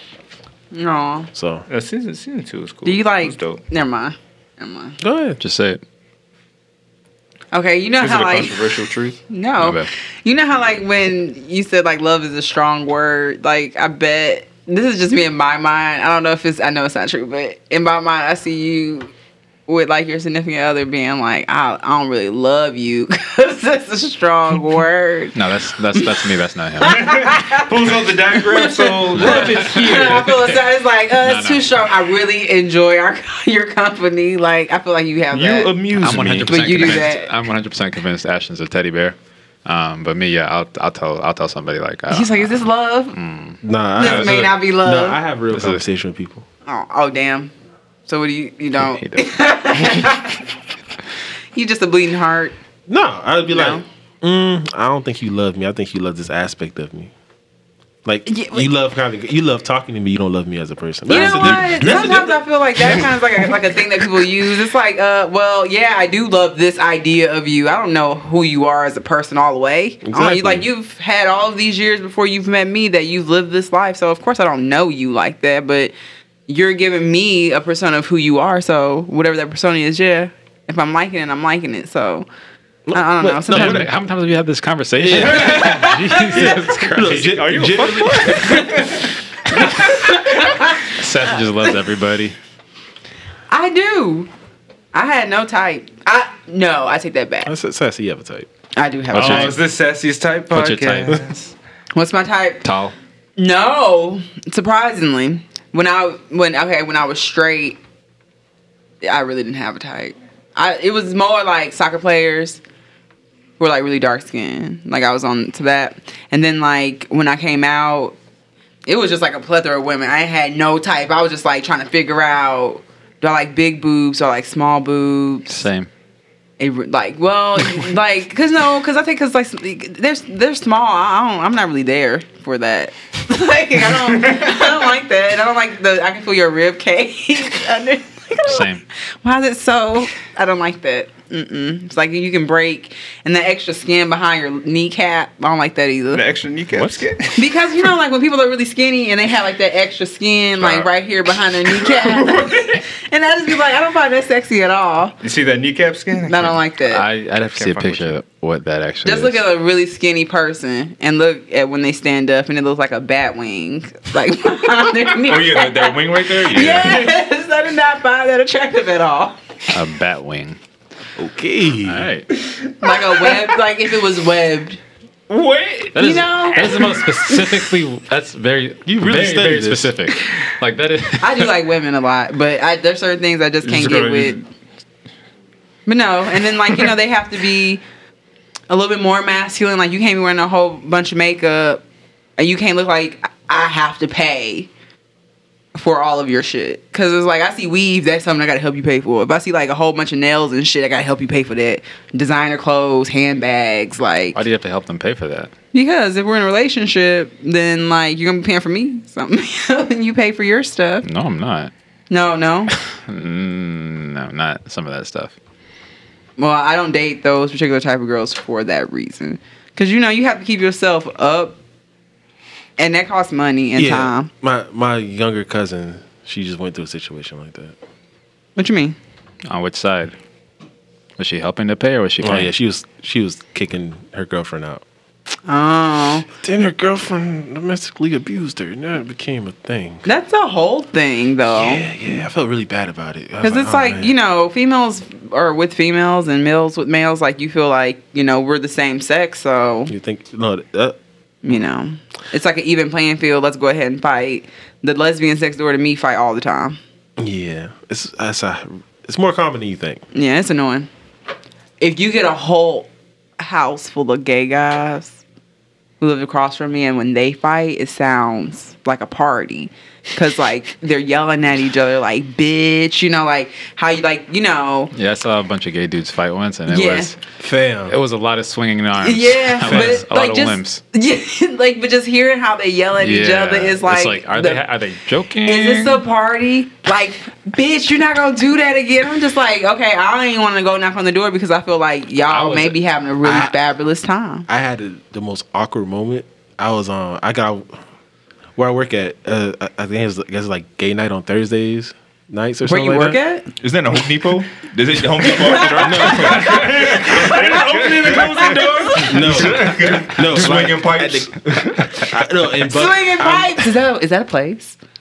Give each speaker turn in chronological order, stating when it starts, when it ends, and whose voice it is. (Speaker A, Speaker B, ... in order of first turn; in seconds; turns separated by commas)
Speaker A: 0.7-1.3, Speaker B: 1.3-1.6, Speaker C: 1.7-3.6, Speaker A: 2.8-5.0, Speaker B: 5.0-5.4, Speaker D: 5.4-5.8, Speaker A: 7.5-8.7, Speaker C: 8.0-9.2, Speaker A: 9.3-19.1, Speaker D: 9.6-9.9, Speaker A: 19.7-25.4, Speaker D: 25.3-27.3, Speaker A: 26.8-35.8, Speaker C: 26.9-30.4, Speaker D: 29.1-31.7, Speaker C: 35.3-37.0, Speaker D: 35.9-43.6, Speaker A: 36.4-37.3, Speaker A: 42.1-43.2, Speaker B: 43.6-46.4, Speaker A: 44.0-45.2, Speaker D: 45.5-45.8, Speaker A: 46.6-47.5, Speaker A: 48.1-50.4, Speaker D: 48.8-49.3, Speaker A: 51.5-52.5, Speaker B: 52.9-57.1, Speaker A: 53.5-53.8, Speaker B: 58.0-63.8, Speaker A: 58.2-58.7, Speaker A: 61.1-75.9, Speaker E: 61.1-62.0, Speaker B: 70.0-70.7, Speaker A: 76.5-82.3, Speaker B: 82.9-83.9, Speaker A: 82.9-83.9, Speaker D: 83.5-87.4, Speaker B: 85.0-88.7, Speaker A: 85.2-86.2, Speaker C: 87.0-89.1, Speaker A: 89.6-90.8, Speaker D: 89.8-92.3, Speaker A: 93.5-94.3, Speaker A: 94.9-97.5, Speaker B: 97.5-98.5, Speaker A: 98.8-99.6, Speaker D: 99.1-99.5, Speaker C: 99.1-101.4, Speaker D: 100.5-101.2, Speaker A: 101.9-102.7, Speaker D: 102.6-102.9, Speaker A: 103.4-107.8, Speaker A: 109.0-112.6, Speaker A: 113.6-118.2, Speaker A: 118.9-125.6, Speaker D: 125.5-125.9, Speaker A: 126.6-138.7, Speaker D: 138.4-138.8, Speaker A: 139.2-146.2, Speaker C: 146.1-147.5, Speaker D: 146.7-147.1, Speaker A: 147.3-155.2, Speaker C: 151.8-152.8, Speaker C: 155.2-156.6, Speaker A: 156.2-157.1, Speaker D: 156.8-159.4, Speaker C: 157.5-158.1, Speaker A: 159.0-169.4, Speaker E: 165.2-167.1, Speaker D: 169.7-170.6, Speaker B: 171.2-172.1, Speaker D: 171.8-172.3, Speaker A: 172.8-174.8, Speaker C: 175.3-175.9, Speaker D: 175.9-181.5, Speaker A: 175.9-177.4, Speaker B: 178.8-180.0, Speaker A: 181.2-184.4, Speaker C: 183.6-184.4, Speaker A: 185.8-187.8, Speaker A: 188.7-191.8, Speaker A: 192.4-194.7, Speaker A: 195.7-204.4, Speaker D: 204.3-205.5, Speaker A: 205.7-211.1, Speaker D: 211.0-211.7, Speaker A: 212.1-212.7, Speaker D: 212.7-215.3, Speaker A: 216.4-221.6, Speaker A: 222.8-224.3, Speaker B: 223.7-227.8, Speaker A: 228.6-229.0, Speaker D: 229.5-230.1, Speaker D: 231.2-232.5, Speaker B: 232.2-234.8, Speaker A: 235.4-236.3, Speaker B: 236.4-240.1, Speaker A: 240.0-241.9, Speaker B: 241.5-244.1, Speaker A: 243.4-249.9, Speaker B: 249.9-250.9, Speaker A: 251.4-256.8, Speaker B: 257.2-260.0, Speaker A: 260.1-260.9, Speaker A: 261.8-265.2, Speaker A: 266.0-274.9, Speaker D: 274.9-277.2, Speaker A: 276.7-277.1, Speaker B: 277.4-278.0, Speaker D: 277.9-280.8, Speaker A: 279.0-284.6, Speaker B: 279.6-280.0, Speaker D: 282.9-286.0, Speaker A: 285.4-294.5, Speaker D: 292.3-292.8, Speaker B: 293.2-293.6, Speaker B: 294.5-297.8, Speaker B: 298.6-303.2, Speaker A: 302.6-303.5, Speaker E: 303.6-308.6, Speaker A: 305.4-309.4, Speaker B: 305.5-307.5, Speaker C: 306.3-309.8, Speaker B: 309.0-313.7, Speaker E: 309.1-312.2, Speaker A: 312.6-314.8